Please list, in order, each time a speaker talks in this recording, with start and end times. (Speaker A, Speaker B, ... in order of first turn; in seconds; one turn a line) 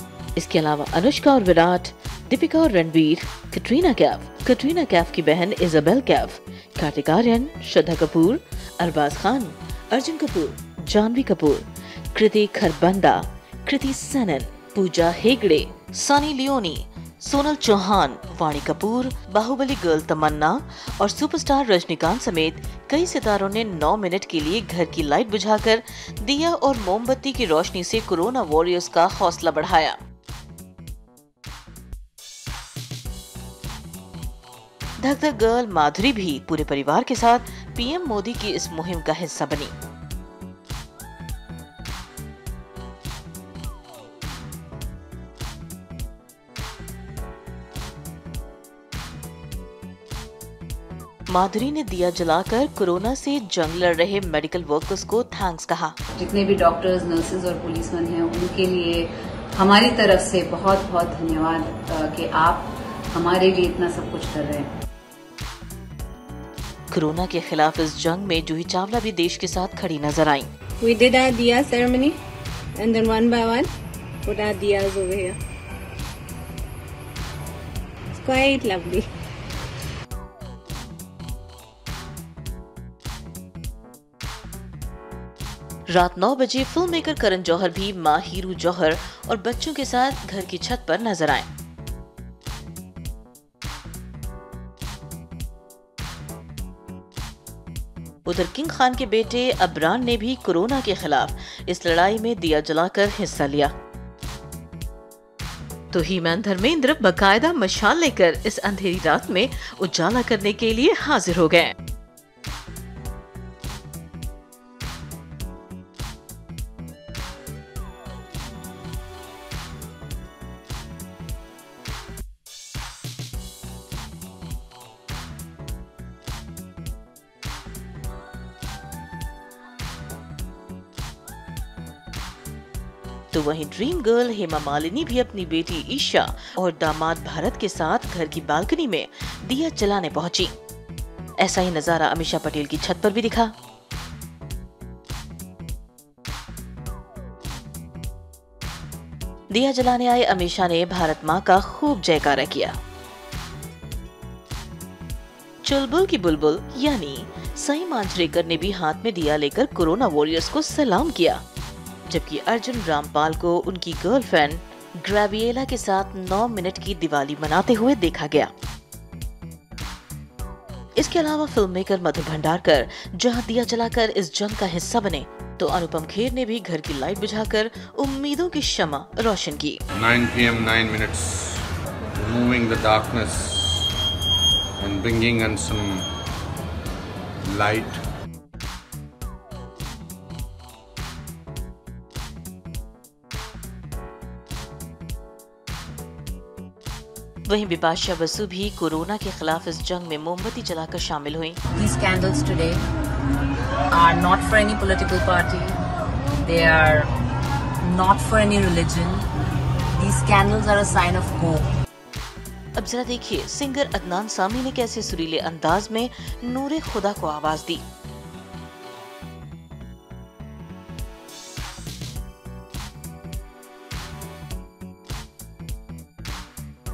Speaker A: 0.4-30.0
Speaker A: 35.0-39.7
Speaker A: 51.3-56.0
Speaker B: 56.2-64.7
Speaker A: 66.9-70.5
Speaker C: 70.8-72.2
Speaker C: 72.8-73.7
Speaker C: 74.3-75.4
Speaker C: 78.2-79.1
Speaker A: 85.9-91.5
Speaker A: 98.3-103.7
Speaker A: 105.9-111.7
Speaker A: 133.3-140.5
Speaker A: 141.4-143.5
Speaker A: 149.5-152.8
Speaker A: 155.6-161.4
Speaker A: 162.1-168.5
Speaker A: 171.0-179.8
Speaker D: 180.0-181.7
Speaker D: 182.2-183.9
Speaker D: 184.8-186.1
Speaker D: 187.5-188.0
Speaker A: 197.5-201.6
Speaker E: 201.8-202.8
Speaker E: 203.9-205.8
Speaker E: 206.4-207.1
Speaker E: 207.8-209.2
Speaker E: 209.9-211.7
Speaker A: 212.8-217.8